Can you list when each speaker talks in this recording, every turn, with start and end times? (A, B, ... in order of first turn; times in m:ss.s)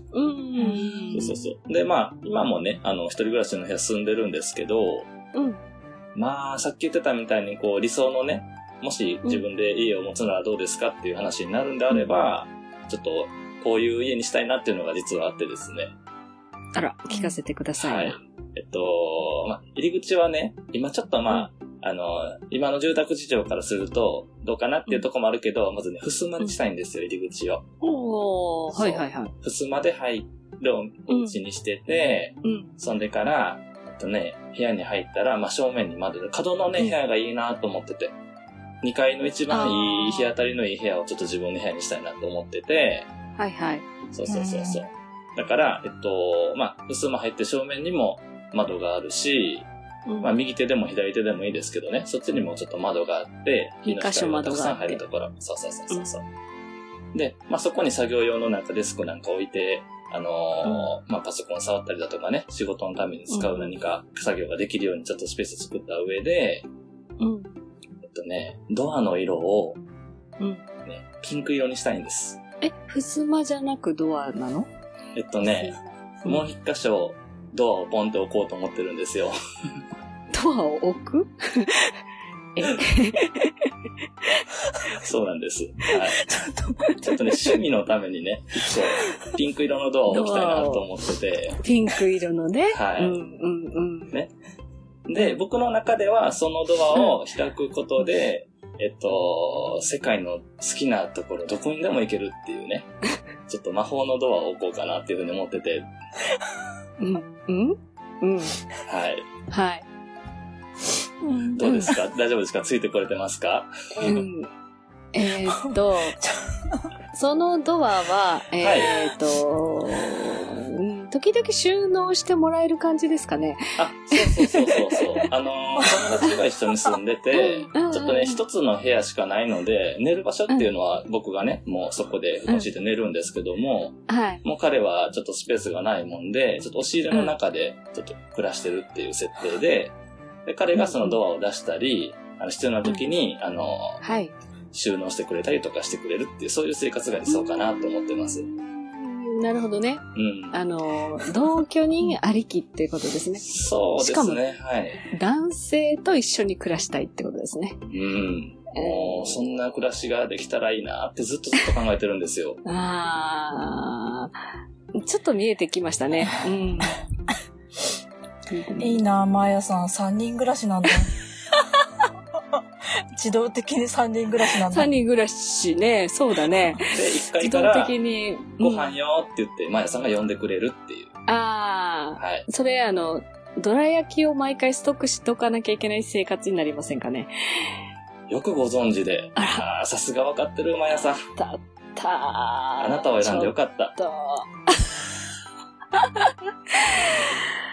0:00.1-0:01.4 A
0:00.6-0:01.3 B
0:01.1-0:05.1 C
0:05.3-0:05.6 A
0:06.1-0:15.9 C
0:16.7-0:18.2 A
0:17.8-0:27.6 C
0:27.8-0:29.3 A
0:28.7-0:38.1 C
0:31.1-0:31.4 A
0:32.4-0:32.7 A
0:38.8-0:43.1 C
0:39.5-0:40.3 A
0:43.4-0:43.8 A
0:44.1-0:49.7 C
0:44.3-0:44.8 B
0:50.1-0:50.3 A
0:50.2-0:56.2 C
0:53.8-0:55.0 A
0:57.1-1:06.6 C
1:00.6-1:00.9 A
1:03.3-1:03.7 A
1:07.2-1:07.5 A
1:08.1-1:09.8 C
1:10.8-1:12.4 C
1:12.6-1:14.7 A
1:15.1-1:19.4 C
1:15.4-1:16.5 A
1:20.3-1:21.9 A
1:22.6-1:23.7 A
1:24.9-1:26.2 C
1:26.2-1:26.9 B
1:27.0-1:31.6 C
1:30.1-1:30.8 A
1:31.6-1:34.1 A
1:32.7-1:33.2 C
1:35.1-1:42.9 C
1:43.4-1:45.9 C
1:47.0-1:48.6 A
1:48.8-1:49.3 C
1:49.5-1:49.8 A
1:51.2-1:52.0 B
1:51.5-1:54.2 C
1:51.6-1:51.9 A
1:54.0-1:54.5 A
1:55.1-1:56.2 A
1:55.6-1:56.9 B
1:57.1-2:05.0 A
1:58.6-1:58.9 C
2:03.8-2:19.9 C
2:05.8-2:06.2 B
2:07.3-2:08.4 A
2:14.1-2:14.4 A
2:20.4-2:24.0 C
2:20.7-2:21.2 A
2:24.0-2:24.3 A
2:24.7-2:28.5 C
2:27.3-2:33.4 A
2:30.1-2:30.6 C
2:33.4-2:35.0 C
2:34.0-2:34.4 A
2:35.1-2:37.8 A
2:37.9-2:42.6 C
2:38.7-2:39.5 A
2:42.6-2:44.4 A
2:44.9-2:47.0 A
2:48.5-2:49.0 A
2:48.8-2:51.1 B
2:52.4-2:52.6 B
2:53.1-2:54.9 B
2:54.7-2:58.9 A
2:56.9-2:57.9 C
2:58.6-3:01.1 C
3:01.3-3:07.7 A
3:02.2-3:02.4 C
3:08.3-3:11.2 C
3:09.4-3:09.6 A
3:11.4-3:15.0 A
3:12.8-3:14.0 C
3:15.9-3:17.4 A